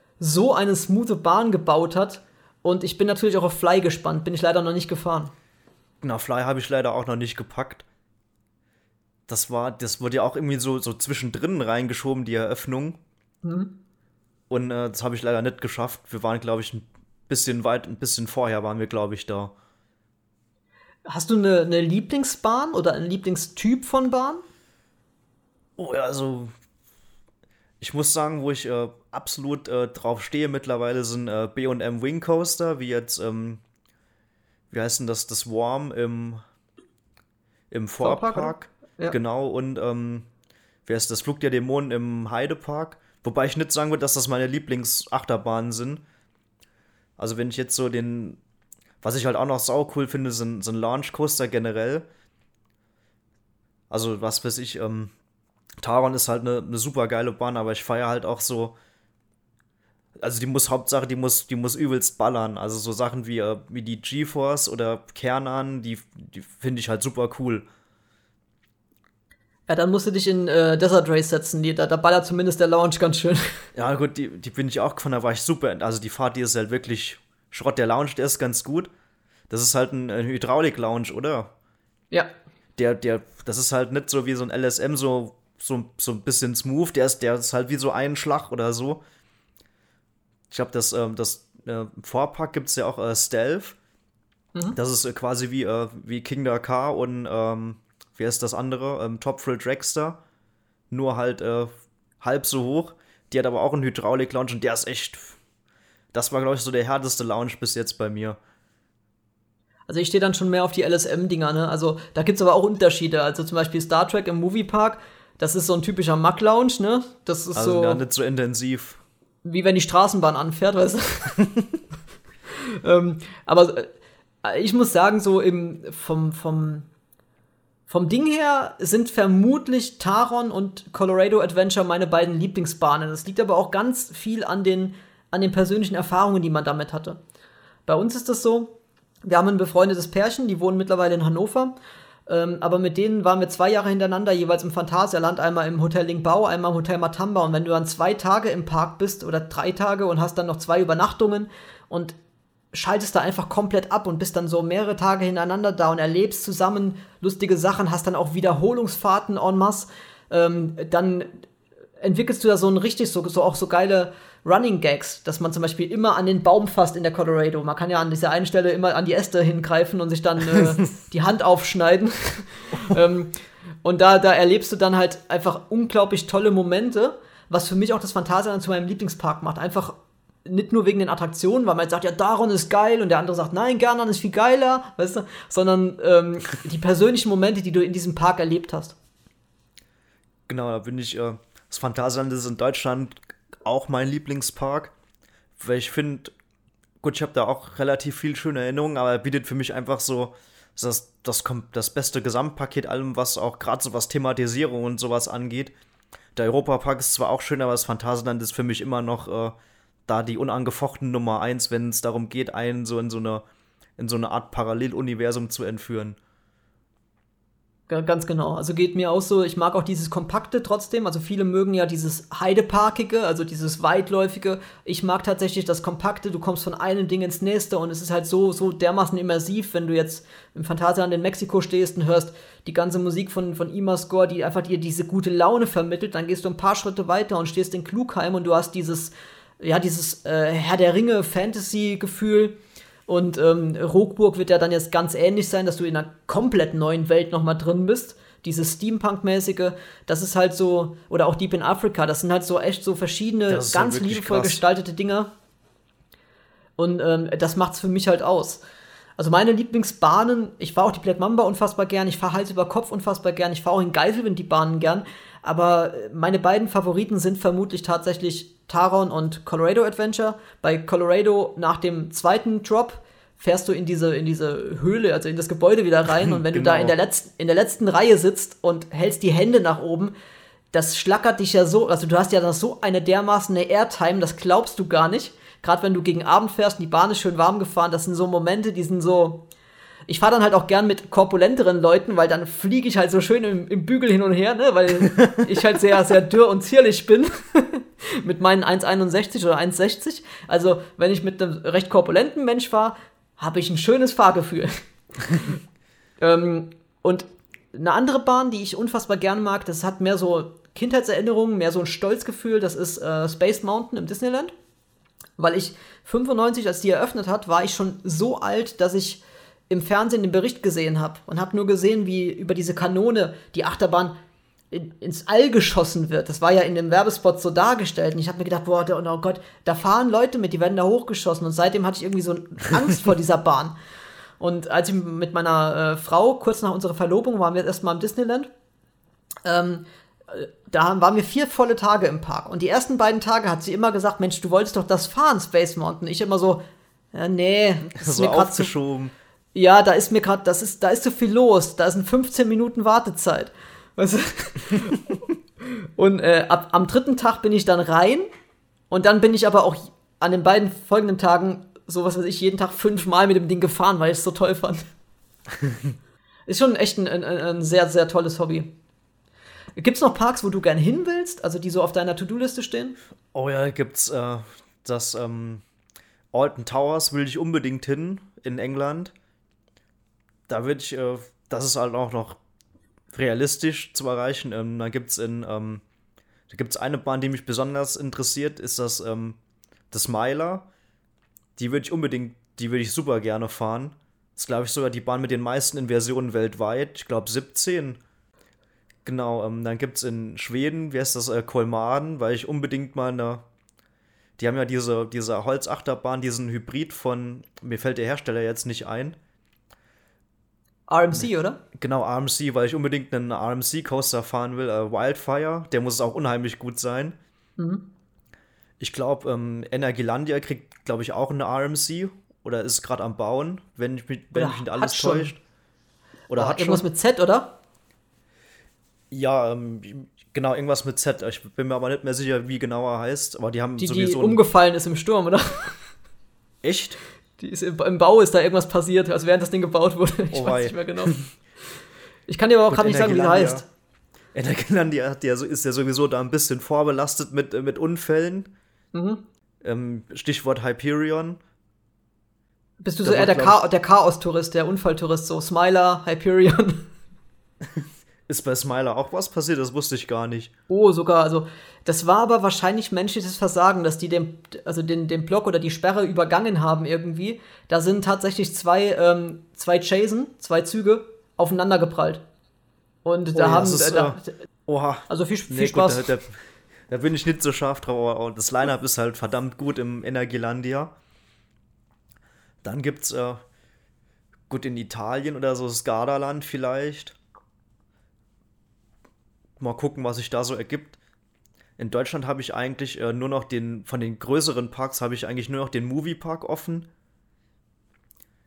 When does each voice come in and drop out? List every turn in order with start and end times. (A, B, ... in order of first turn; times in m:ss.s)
0:00.2-0:05.3 A
0:06.0-0:07.9 B
0:09.3-0:13.0 B
0:13.4-0:13.8 A
0:14.5-0:19.5 B
0:21.1-0:24.4 A
0:25.8-0:26.5 B
0:27.8-0:33.6 B
0:34.7-0:36.4 B
0:37.7-0:40.3 B
0:38.0-0:39.2 A
0:40.9-0:46.0 B
0:47.2-0:48.4 B
0:49.0-0:52.0 B
0:53.9-0:55.1 B
0:55.8-0:58.8 B
1:00.2-1:07.6 B
1:09.7-1:13.7 A
1:13.8-1:18.9 B
1:19.5-1:21.5 B
1:22.8-1:29.0 B
1:30.5-1:33.8 B
1:34.7-1:40.2 B
1:40.9-1:41.7 B
1:42.2-1:45.4 B
1:46.1-1:48.4 B
1:49.9-1:58.0 A
1:57.6-1:59.0 B
1:59.4-2:01.4 A
2:02.5-2:03.9 A
2:04.4-2:06.9 A
2:07.9-2:17.2 A
2:17.9-2:21.8 A
2:22.3-2:32.2 A
2:32.7-2:41.3 A
2:42.0-3:09.0 A
3:10.5-3:14.9 B
3:15.6-3:16.3 B
3:17.0-3:25.7 B
3:26.4-3:29.6 B
3:30.1-3:33.4 B
3:34.0-3:36.2 B
3:37.9-4:02.6 A
4:03.1-4:15.3 A
4:13.5-4:14.6 B
4:16.8-4:18.6 A
4:19.2-4:40.1 A
4:36.2-4:36.9 B
4:40.7-4:49.4 A
4:50.1-5:05.5 A
4:55.0-4:55.6 B
5:06.2-5:14.5 A
5:15.4-5:24.2 A
5:24.7-5:33.8 A
5:34.4-5:38.5 A
5:39.4-5:48.7 A
5:48.0-5:49.1 B
5:49.5-5:58.3 A
5:58.9-6:04.9 A
6:05.5-6:06.0 B
6:06.5-6:08.7 A
6:09.8-6:13.0 A
6:13.3-6:15.6 B
6:16.3-6:19.1 B
6:20.5-6:22.4 B
6:23.1-6:25.8 B
6:26.5-6:29.4 B
6:29.9-6:30.7 B
6:31.6-6:38.0 B
6:39.0-6:43.4 B
6:44.4-6:49.2 B
6:50.9-6:51.6 A
6:51.8-6:57.2 B
6:57.6-6:57.8 A
6:58.8-7:05.4 B
7:04.3-7:05.3 A
7:06.3-7:07.6 A
7:06.3-7:06.9 B
7:09.1-7:14.4 B
7:13.8-7:15.9 A
7:16.6-7:17.0 B
7:17.4-7:21.2 A
7:20.3-7:21.3 B
7:22.3-7:23.7 A
7:22.7-7:23.6 B
7:24.3-7:28.5 B
7:28.9-7:29.2 A
7:29.6-7:31.4 B
7:32.8-7:36.9 A
7:33.0-7:33.6 B
7:37.6-7:40.5 B
7:40.7-7:52.2 A
7:53.0-7:54.3 A
7:53.3-8:00.9 B
7:55.1-7:56.1 A
8:02.6-8:03.4 B
8:04.5-8:07.2 B
8:09.6-8:11.0 B
8:11.8-8:16.9 B